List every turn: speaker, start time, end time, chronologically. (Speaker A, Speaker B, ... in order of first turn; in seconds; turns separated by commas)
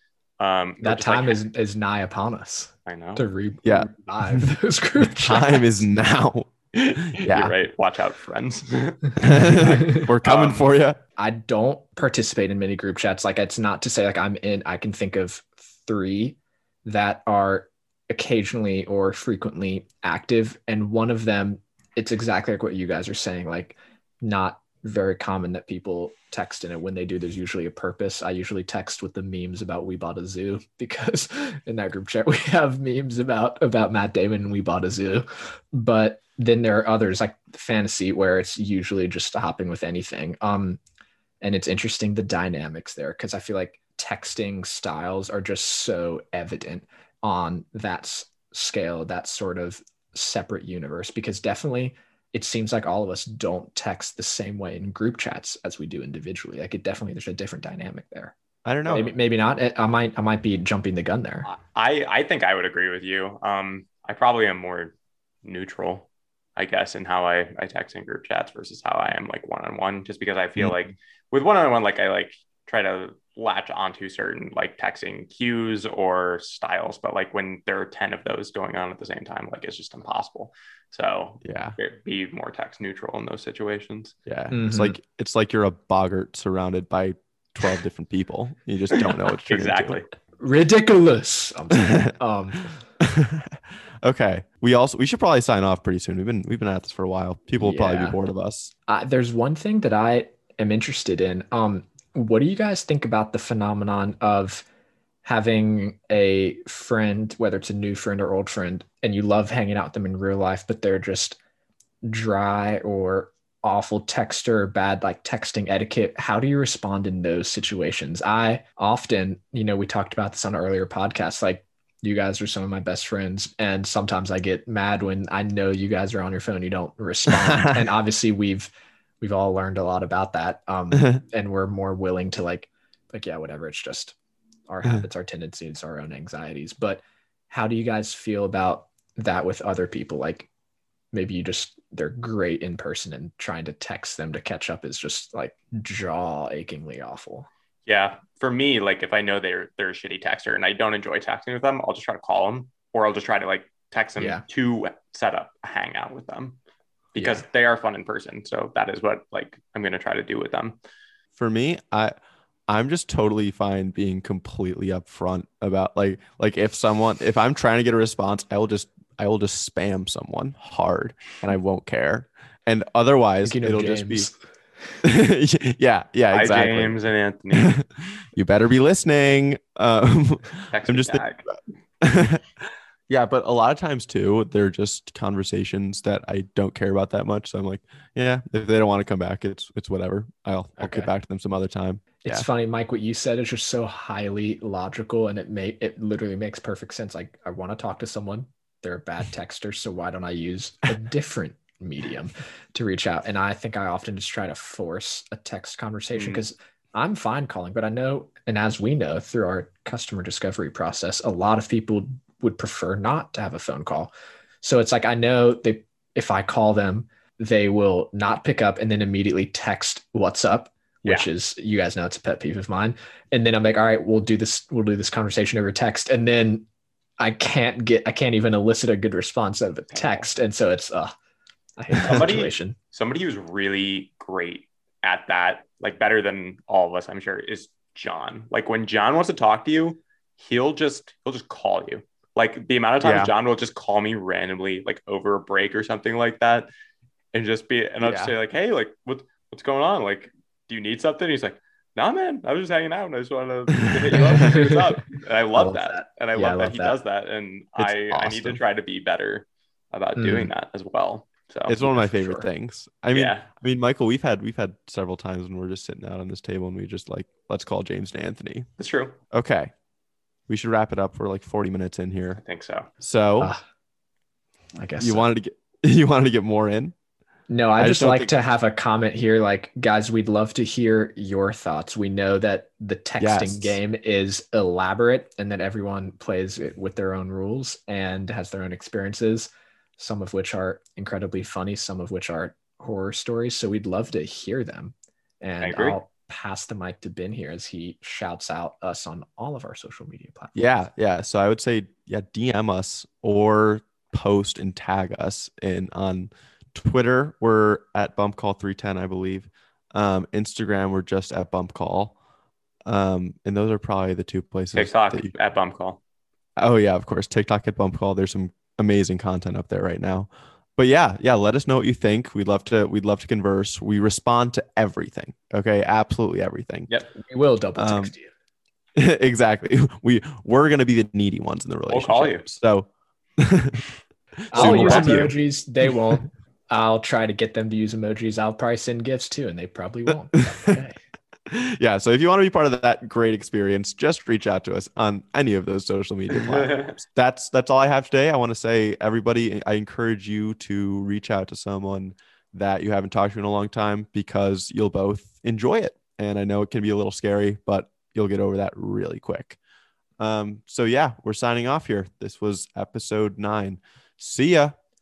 Speaker A: 0.4-1.4, Speaker B: 0.8-5.9, Speaker A: 2.9-3.3, Speaker C: 3.6-7.5, Speaker A: 6.8-10.7, Speaker C: 9.2-11.0, Speaker B: 11.2-40.8, Speaker B: 41.4-58.3, Speaker C: 58.6-59.1, Speaker B: 58.9-61.5, Speaker A: 61.5-84.1, Speaker C: 81.4-81.8, Speaker C: 84.3-90.0, Speaker B: 84.5-85.0, Speaker A: 89.5-90.1, Speaker B: 90.4-92.8, Speaker C: 91.8-92.1, Speaker C: 93.0-98.7, Speaker B: 97.6-98.2, Speaker B: 98.9-104.7, Speaker B: 105.2-111.4, Speaker B: 112.0-128.7, Speaker C: 127.3-127.9, Speaker B: 129.2-134.2, Speaker B: 134.7-140.5, Speaker B: 141.1-147.5, Speaker A: 147.9-156.6, Speaker B: 154.2-154.4, Speaker A: 157.2-160.8, Speaker C: 161.4-162.1, Speaker C: 162.7-174.3, Speaker B: 173.4-174.4, Speaker C: 175.0-177.0, Speaker A: 176.3-177.8, Speaker C: 177.5-182.5, Speaker A: 180.7-181.5, Speaker C: 183.1-192.5, Speaker B: 190.8-191.1, Speaker B: 192.2-226.7, Speaker A: 206.1-206.4, Speaker B: 227.2-231.1, Speaker A: 229.9-230.3, Speaker B: 231.8-232.8, Speaker A: 232.0-246.7, Speaker C: 243.0-243.3, Speaker A: 247.3-261.9, Speaker C: 248.0-248.3, Speaker C: 253.9-254.3, Speaker B: 254.2-255.0, Speaker B: 255.6-257.0, Speaker C: 257.8-258.6, Speaker B: 260.2-260.5, Speaker C: 261.7-268.7, Speaker B: 261.9-262.5, Speaker A: 263.1-263.5, Speaker A: 268.8-269.2, Speaker C: 269.3-269.7, Speaker C: 270.5-272.4, Speaker A: 272.4-272.9, Speaker C: 273.0-273.5, Speaker B: 274.8-275.3, Speaker C: 275.0-276.9, Speaker B: 277.5-300.6, Speaker C: 277.8-278.3, Speaker C: 283.2-283.8, Speaker A: 295.6-296.0, Speaker C: 300.6-312.2, Speaker C: 312.9-315.3, Speaker A: 314.7-316.0, Speaker C: 316.6-326.9, Speaker B: 327.2-328.3, Speaker C: 327.8-328.1, Speaker C: 329.0-333.8, Speaker A: 331.9-332.4, Speaker C: 334.5-335.3, Speaker B: 334.5-341.0, Speaker A: 334.6-335.3, Speaker C: 340.3-340.8, Speaker C: 341.5-359.6, Speaker A: 346.4-347.0, Speaker C: 360.2-364.8